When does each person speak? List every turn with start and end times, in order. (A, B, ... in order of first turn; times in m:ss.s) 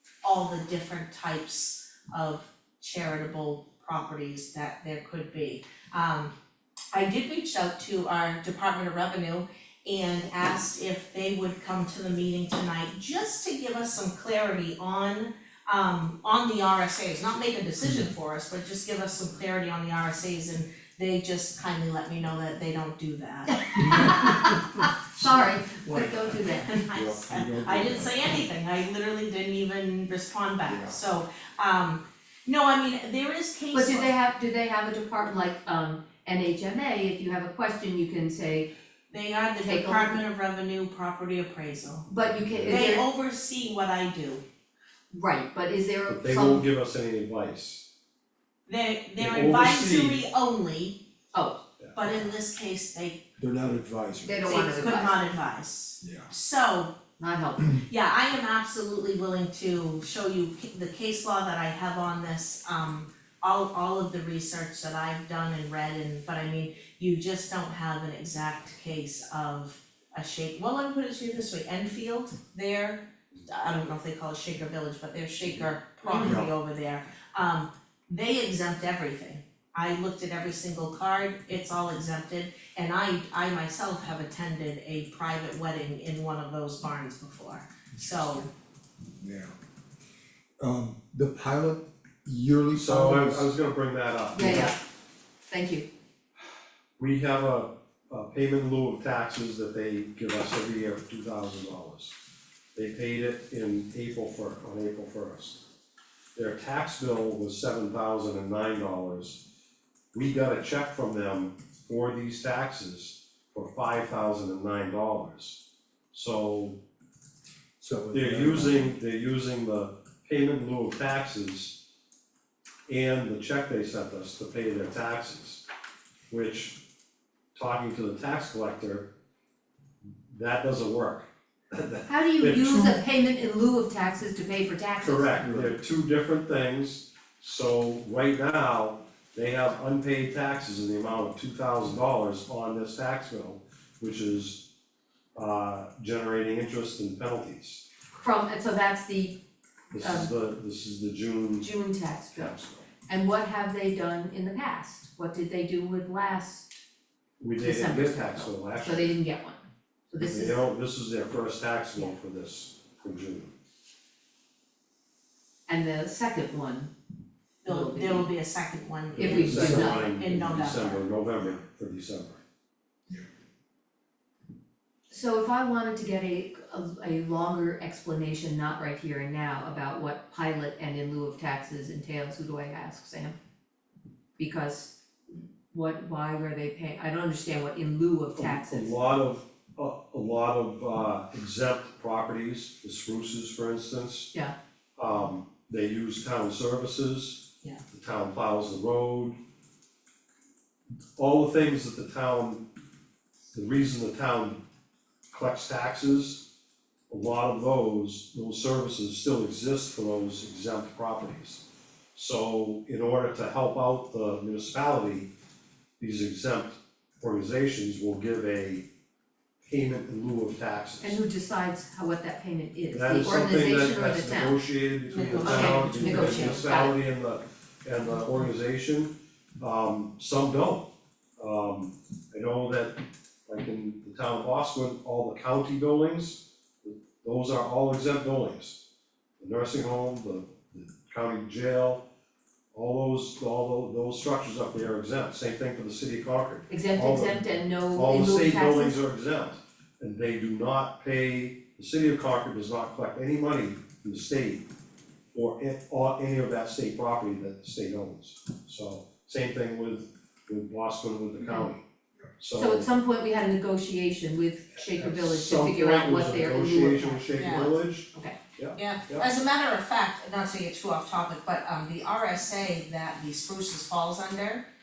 0:00.2-0:06.3 A
0:06.9-0:23.9 A
0:23.5-0:26.8 B
0:23.8-0:26.4 C
0:26.4-0:34.1 A
0:26.9-0:28.5 C
0:30.6-0:31.0 C
0:33.7-0:38.7 B
0:39.1-0:42.1 A
0:39.6-0:40.2 B
0:42.1-0:43.0 B
0:42.6-0:44.4 A
0:45.1-0:46.7 B
0:46.1-0:47.8 D
0:48.7-0:51.0 A
0:49.2-0:50.2 D
0:51.3-0:51.6 B
0:52.0-0:53.2 A
0:53.4-0:54.4 C
0:54.2-0:55.2 B
0:54.4-0:56.9 A
0:56.0-0:56.3 C
0:57.2-0:57.8 B
0:57.9-1:28.5 A
1:16.0-1:16.4 B
1:29.1-1:29.6 C
1:30.6-1:33.5 C
1:32.8-1:34.7 D
1:34.3-1:34.8 B
1:34.4-1:34.6 C
1:35.5-1:35.9 B
1:37.0-1:42.2 D
1:42.8-1:45.6 D
1:46.4-1:49.4 D
1:50.1-1:55.6 D
1:56.1-1:56.8 D
1:57.8-1:58.9 C
1:58.1-2:01.7 D
2:02.9-2:05.6 D
2:06.3-2:06.8 D
2:07.6-2:09.1 D
2:10.3-2:13.0 D
2:12.1-2:15.5 B
2:15.0-2:24.6 D
2:25.4-2:27.8 D
2:28.2-2:29.4 B
2:29.9-2:31.7 D
2:30.0-2:30.3 B
2:31.6-2:36.7 B
2:32.4-2:32.9 D
2:37.4-2:39.1 D
2:37.6-2:40.6 B
2:40.2-2:43.5 D
2:45.7-2:46.9 B
2:47.6-2:51.1 A
2:47.7-2:48.3 B
2:49.2-2:52.4 D
2:49.2-2:50.1 B
2:55.1-3:03.4 B
3:04.4-3:04.9 B
3:05.7-3:08.9 B
3:08.4-3:14.3 D
3:15.0-3:19.4 D
3:21.2-3:22.6 D
3:23.5-3:24.6 D
3:25.3-3:26.4 D
3:27.1-3:31.6 D
3:32.2-3:35.3 D
3:36.0-3:38.8 D
3:39.6-3:41.2 D
3:41.0-3:44.6 B
3:42.9-3:50.9 D
3:45.1-3:46.6 A
3:45.3-3:46.9 B
3:51.4-3:58.8 D
3:59.4-4:02.0 D
4:02.7-4:14.6 D
4:06.7-4:09.0 B
4:15.3-4:21.8 D
4:22.4-4:22.9 D
4:22.6-4:28.4 B
4:24.8-4:29.3 D
4:27.4-4:27.7 A
4:28.8-4:34.6 A